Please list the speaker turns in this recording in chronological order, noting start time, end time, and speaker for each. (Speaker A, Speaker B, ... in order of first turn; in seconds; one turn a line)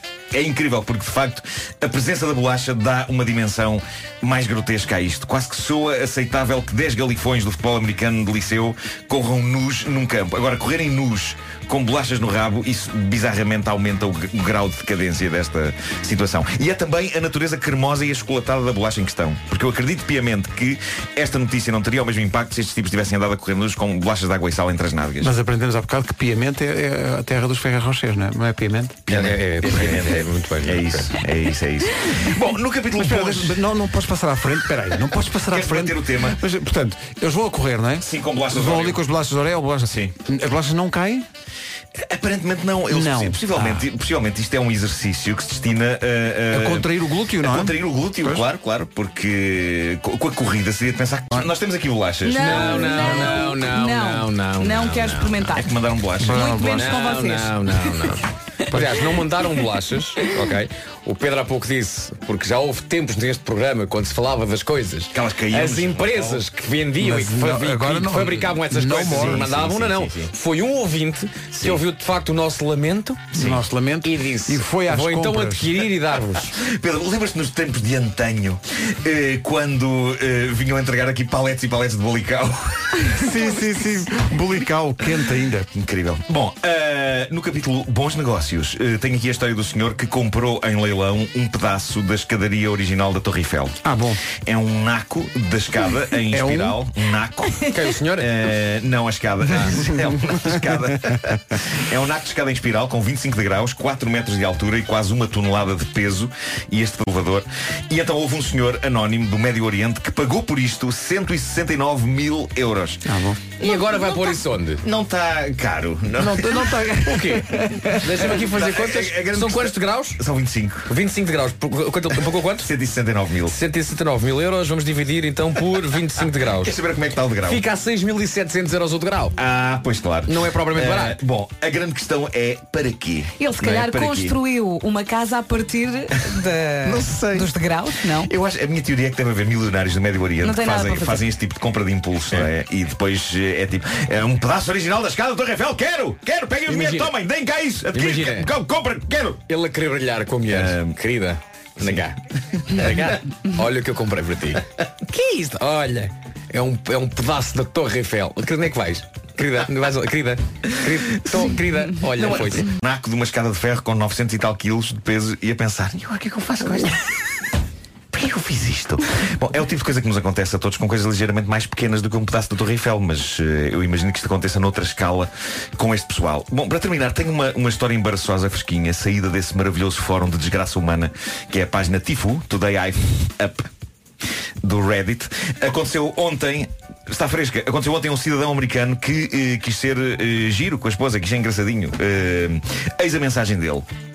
Speaker A: 0.3-25.3
Speaker B: 25.2-30.0
Speaker C: 29.1-31.2
Speaker A: 29.1-33.6
Speaker B: 33.0-41.3
Speaker A: 35.5-36.4
Speaker A: 38.0-39.0
Speaker A: 39.9-40.1
Speaker A: 41.9-53.1
Speaker B: 42.9-43.9
Speaker B: 46.5-48.5
Speaker D: 52.2-55.8
Speaker C: 52.3-55.5
Speaker A: 55.5-56.5
Speaker B: 56.2-57.1
Speaker D: 56.3-58.0
Speaker C: 56.6-73.3
Speaker A: 65.1-66.4
Speaker B: 67.0-69.4
Speaker A: 69.1-70.3
Speaker A: 73.3-73.6
Speaker B: 73.3-75.8
Speaker C: 74.0-76.5
Speaker A: 76.5-83.2
Speaker B: 83.2-85.7
Speaker A: 85.7-93.8
Speaker B: 93.8-94.2
Speaker A: 94.3-113.0
Speaker B: 96.3-96.8
Speaker C: 97.7-98.5
Speaker C: 99.5-99.8
Speaker B: 113.0-113.4
Speaker C: 113.6-114.8
Speaker A: 113.6-114.1
Speaker A: 114.8-116.9
Speaker C: 116.2-120.2
Speaker B: 116.3-118.0
Speaker A: 117.9-120.9
Speaker C: 120.9-122.7
Speaker A: 122.5-123.5
Speaker C: 123.5-126.7
Speaker A: 126.6-127.6
Speaker C: 127.4-129.3
Speaker A: 129.3-134.4
Speaker C: 130.3-131.2
Speaker D: 133.4-138.3
Speaker A: 136.8-137.5
Speaker A: 138.2-149.4
Speaker D: 140.4-141.3
Speaker C: 146.7-147.1
Speaker C: 147.9-148.5
Speaker C: 149.5-162.7
Speaker A: 150.5-151.0
Speaker A: 151.8-152.1
Speaker A: 161.2-161.5
Speaker A: 162.2-167.0
Speaker A: 168.1-183.7
Speaker A: 184.6-193.9